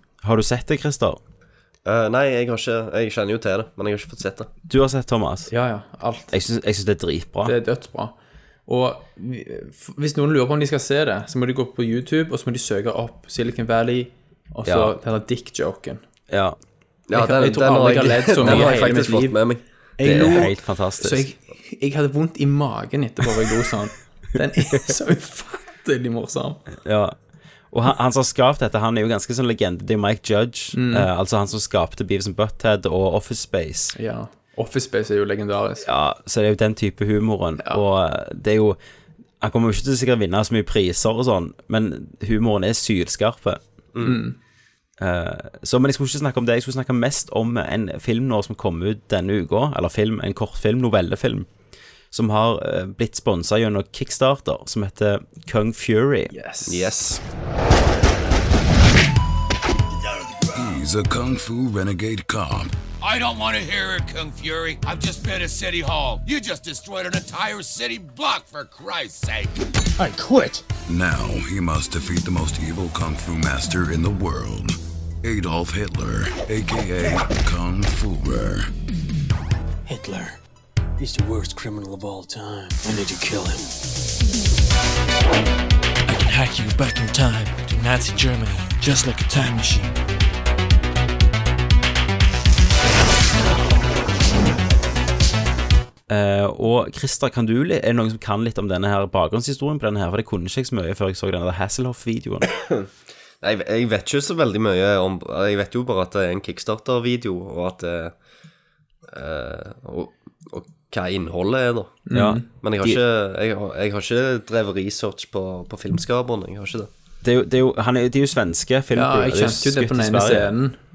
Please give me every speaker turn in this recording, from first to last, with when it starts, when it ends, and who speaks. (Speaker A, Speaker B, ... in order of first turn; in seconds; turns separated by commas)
Speaker A: 0.2-1.2, Speaker B: 1.9-4.5, Speaker A: 4.7-5.5, Speaker C: 5.5-6.3, Speaker A: 6.3-7.5, Speaker C: 7.5-8.2, Speaker C: 8.7-16.0, Speaker A: 14.7-14.9, Speaker A: 16.3-16.6, Speaker B: 17.1-19.6, Speaker C: 17.1-19.4, Speaker A: 18.4-18.7, Speaker C: 20.0-26.6, Speaker A: 20.0-21.3, Speaker A: 26.8-27.1, Speaker A: 27.7-34.0, Speaker C: 30.7-31.1, Speaker C: 34.0-35.9, Speaker A: 35.8-38.8, Speaker A: 39.4-43.6, Speaker B: 43.9-44.2, Speaker C: 44.0-44.4, Speaker A: 45.0-51.5, Speaker A: 52.1-56.3, Speaker C: 56.3-57.0, Speaker B: 56.6-57.2, Speaker D: 60.5-62.7, Speaker E: 63.0-69.5, Speaker F: 70.0-70.7, Speaker D: 70.9-78.7, Speaker F: 79.9-80.4, Speaker F: 81.0-83.8, Speaker F: 86.1-90.0, Speaker A: 96.1-102.5, Speaker B: 103.4-108.2, Speaker B: 109.1-112.0, Speaker C: 112.1-112.5, Speaker A: 112.1-113.0, Speaker B: 112.5-116.9, Speaker A: 117.2-120.5, Speaker C: 119.0-120.8